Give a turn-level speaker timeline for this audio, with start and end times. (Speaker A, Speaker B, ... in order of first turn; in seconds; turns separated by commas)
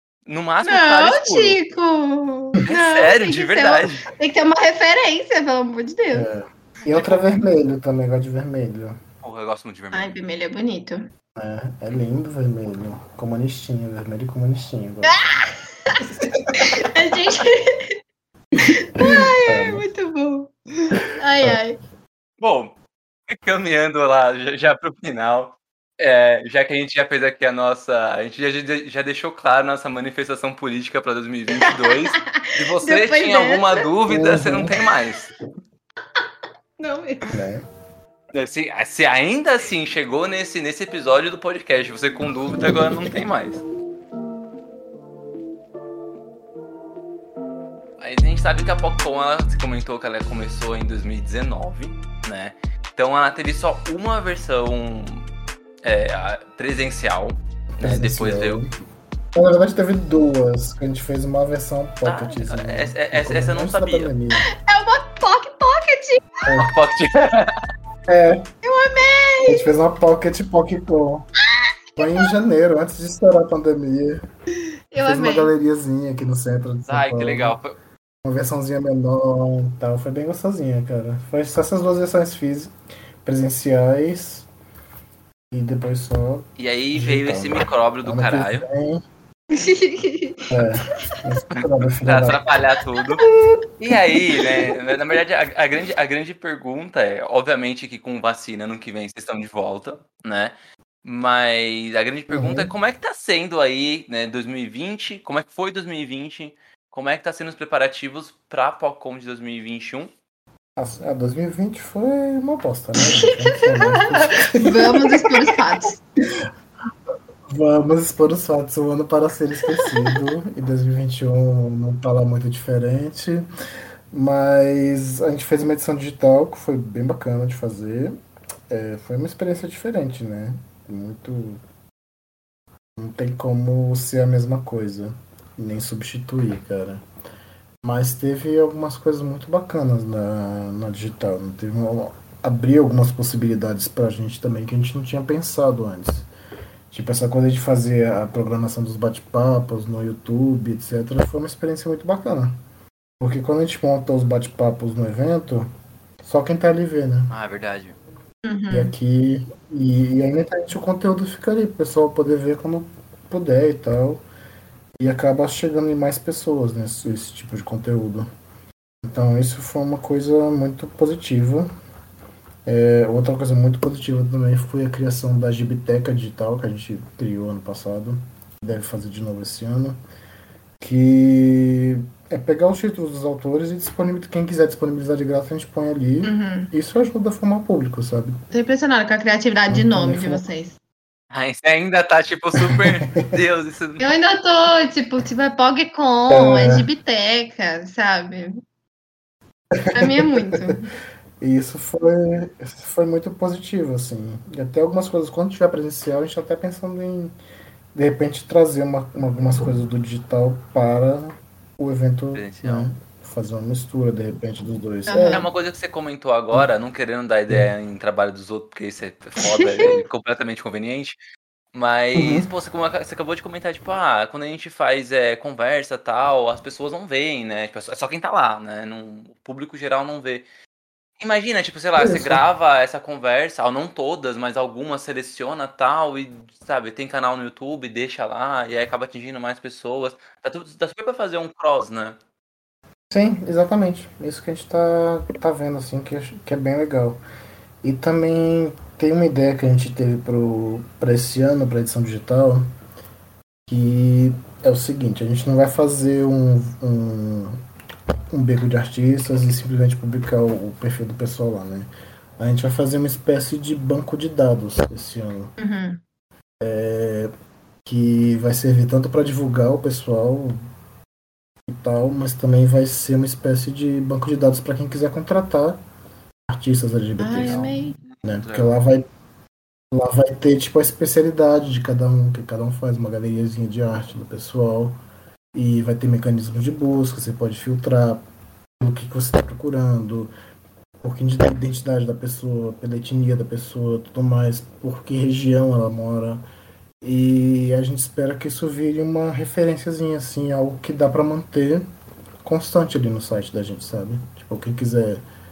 Speaker A: 0.3-1.6, Speaker B: 0.6-6.2, Speaker A: 2.6-4.0, Speaker C: 6.1-9.0, Speaker A: 6.8-7.3, Speaker A: 9.2-10.1, Speaker B: 9.9-11.1, Speaker C: 11.3-15.2, Speaker B: 15.1-16.0, Speaker C: 16.2-16.8, Speaker B: 16.5-17.9, Speaker C: 18.6-19.8, Speaker B: 18.6-21.8, Speaker A: 22.4-22.7, Speaker A: 23.3-35.3, Speaker B: 31.7-33.9, Speaker C: 34.1-34.8, Speaker B: 36.8-37.3, Speaker C: 37.3-37.7, Speaker A: 38.3-43.6, Speaker A: 48.0-55.3, Speaker A: 55.8-58.6, Speaker C: 57.8-58.7, Speaker C: 59.3-64.5, Speaker A: 62.0-64.1, Speaker B: 64.4-66.2, Speaker C: 66.4-66.7, Speaker A: 66.5-67.6, Speaker C: 68.1-68.4, Speaker B: 68.6-69.7, Speaker C: 69.5-71.3, Speaker B: 71.5-72.3, Speaker C: 72.0-74.2, Speaker B: 74.9-75.5, Speaker C: 75.0-77.6, Speaker A: 76.8-77.8, Speaker C: 78.2-82.7, Speaker C: 83.2-84.5, Speaker C: 85.5-89.0, Speaker A: 86.6-88.7, Speaker B: 89.5-90.5, Speaker C: 90.5-92.4, Speaker A: 91.5-93.2, Speaker B: 93.2-93.6, Speaker A: 93.8-110.1, Speaker B: 94.4-94.7, Speaker C: 102.3-102.7, Speaker C: 110.8-115.4, Speaker B: 113.0-116.0, Speaker C: 117.5-123.5, Speaker B: 119.8-120.2, Speaker C: 124.1-128.2, Speaker C: 128.7-131.6, Speaker C: 132.9-137.0, Speaker C: 137.8-146.3, Speaker C: 146.9-152.6, Speaker C: 153.2-155.7, Speaker C: 156.2-157.3, Speaker A: 157.3-158.0, Speaker B: 158.4-158.9, Speaker C: 158.7-164.2, Speaker C: 165.0-168.3, Speaker C: 169.0-171.7, Speaker C: 172.7-180.0, Speaker C: 180.8-188.4, Speaker B: 186.2-186.7, Speaker B: 188.5-190.8, Speaker C: 189.7-190.4, Speaker A: 191.3-194.1, Speaker B: 194.0-198.6, Speaker C: 196.3-196.9, Speaker C: 199.7-200.7, Speaker B: 199.9-200.9, Speaker C: 201.4-207.3, Speaker C: 207.9-215.4, Speaker A: 212.3-212.9, Speaker B: 215.1-215.5, Speaker A: 215.3-221.2, Speaker B: 219.4-219.9, Speaker A: 221.7-230.4, Speaker C: 222.1-222.5, Speaker A: 231.2-242.2, Speaker C: 232.0-232.4, Speaker C: 243.1-247.2, Speaker C: 247.8-252.6, Speaker C: 253.7-257.6, Speaker C: 258.3-265.5, Speaker B: 265.6-266.0, Speaker C: 266.6-267.3, Speaker C: 267.8-270.6, Speaker C: 271.7-275.8, Speaker C: 276.5-279.0, Speaker B: 277.2-278.0, Speaker A: 277.4-278.8, Speaker C: 279.9-285.0, Speaker C: 285.5-288.2, Speaker C: 288.8-290.3, Speaker C: 291.0-296.4, Speaker C: 297.0-301.9, Speaker C: 302.4-305.2